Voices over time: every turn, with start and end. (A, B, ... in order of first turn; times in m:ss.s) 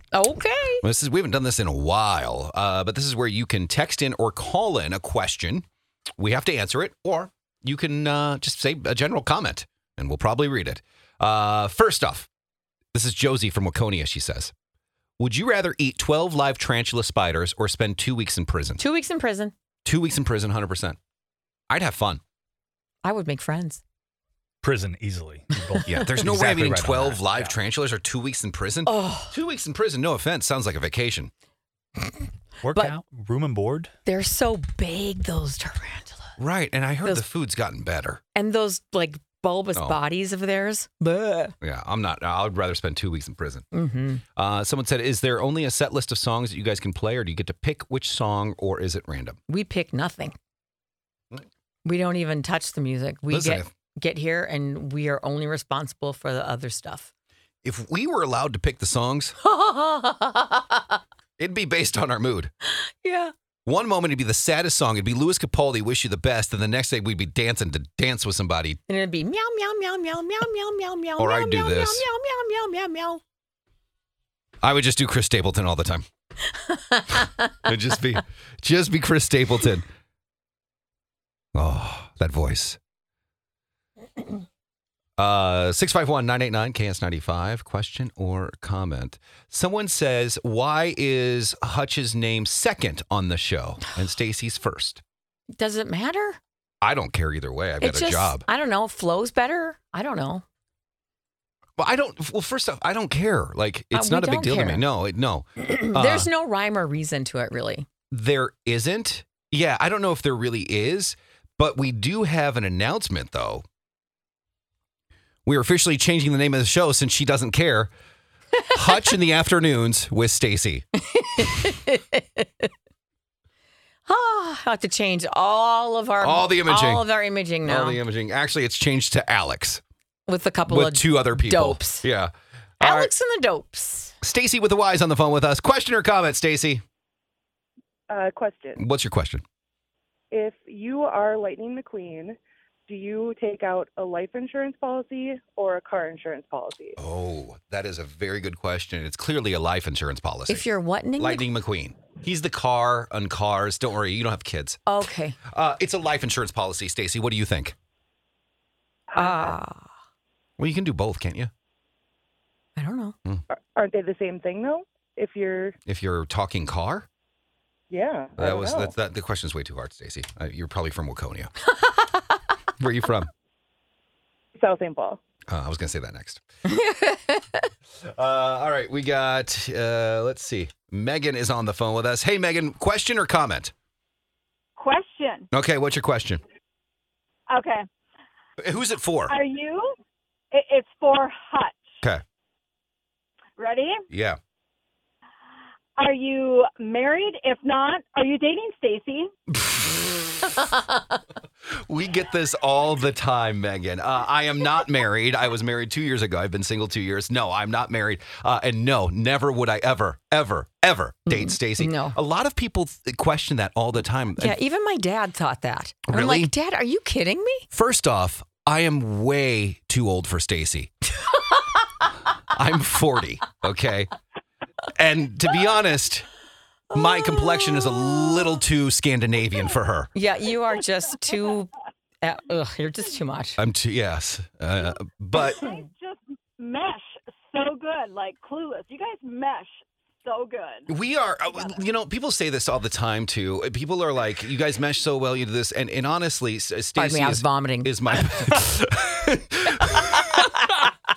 0:00.1-0:00.8 A
0:00.8-0:05.7 B
0:06.2-0:12.3 B
0:12.9-0:14.5 B
0:15.2-0:18.8 B
0:18.8-0:19.5 A
0:19.8-0:21.0 B
0:21.7-0:22.2 B
0:23.0-0:23.8 A
0:24.6-0:27.6 C
0:25.9-0:31.3 B
0:28.9-0:29.3 A
0:32.6-0:33.9 C
0:34.0-0:36.3 A
0:36.4-0:38.2 B
0:38.4-0:41.6 A
0:39.8-0:40.0 B
0:41.6-0:43.7 B
0:43.7-0:44.2 A
0:44.4-0:49.4 B
0:49.5-0:50.4 A
0:51.8-0:57.1 A
0:53.3-0:53.7 B
0:57.6-0:59.4 B
0:59.4-1:01.0 A
1:01.4-1:02.5 B
1:02.8-1:03.3 A
1:03.7-1:08.8 B
1:08.9-1:13.2 A
1:11.2-1:12.1 B
1:14.6-1:16.0 B
1:16.7-1:17.5 A
1:17.6-1:19.9 B
1:21.6-1:22.8 B
1:25.2-1:35.0 B
1:35.6-1:36.4 A
1:36.8-1:38.5 B
1:37.8-1:40.4 A
1:41.8-1:46.3 B
1:43.9-1:44.8 A
1:45.6-1:47.9 A
1:48.1-1:53.6 B
1:55.5-1:57.9 B
1:58.7-2:00.9 B
2:01.1-2:02.7 A
2:04.1-2:08.0 A
2:06.2-2:07.1 B
2:07.6-2:09.8 B
2:10.3-2:12.1 A
2:10.7-2:13.1 B
2:12.8-2:14.1 A
2:14.2-2:16.8 B
2:18.1-2:18.8 D
2:18.8-2:19.4 B
2:20.3-2:27.0 D
2:27.0-2:30.6 B
2:30.5-2:31.5 A
2:31.2-2:34.8 B
2:34.9-2:35.4 A
2:35.5-2:37.8 B
2:39.1-2:39.5 D
2:39.2-2:39.9 A
2:40.6-2:41.5 B
2:42.8-2:43.2 A
2:43.5-2:45.8 D
2:45.9-2:47.1 B
2:47.9-2:48.9 D
2:48.4-2:51.5 B
2:52.8-2:53.3 B
2:54.6-2:55.2 D
2:55.5-2:56.4 B
2:56.7-2:57.6 A
2:58.0-3:03.7 B
3:04.8-3:05.5 E
3:05.5-3:06.4 B
3:07.5-3:07.8 E
3:08.6-3:09.4 B
3:09.3-3:09.9 E
3:10.5-3:11.8 E
3:13.6-3:14.0 E
3:14.1-3:14.4 B
3:16.0-3:19.3 E
3:19.5-3:20.6 B
3:21.7-3:34.6 B
3:31.3-3:32.2 A
3:34.4-3:37.7 A
3:36.1-3:36.5 B
3:37.7-3:40.9 B
3:42.5-3:44.1 B
3:45.0-3:46.3 B
3:46.9-3:50.1 B
3:46.9-3:48.0 A
3:50.2-3:53.6 A
3:53.6-3:55.6 B
3:55.3-4:01.9 E
4:00.9-4:10.6 B
4:07.0-4:08.0 A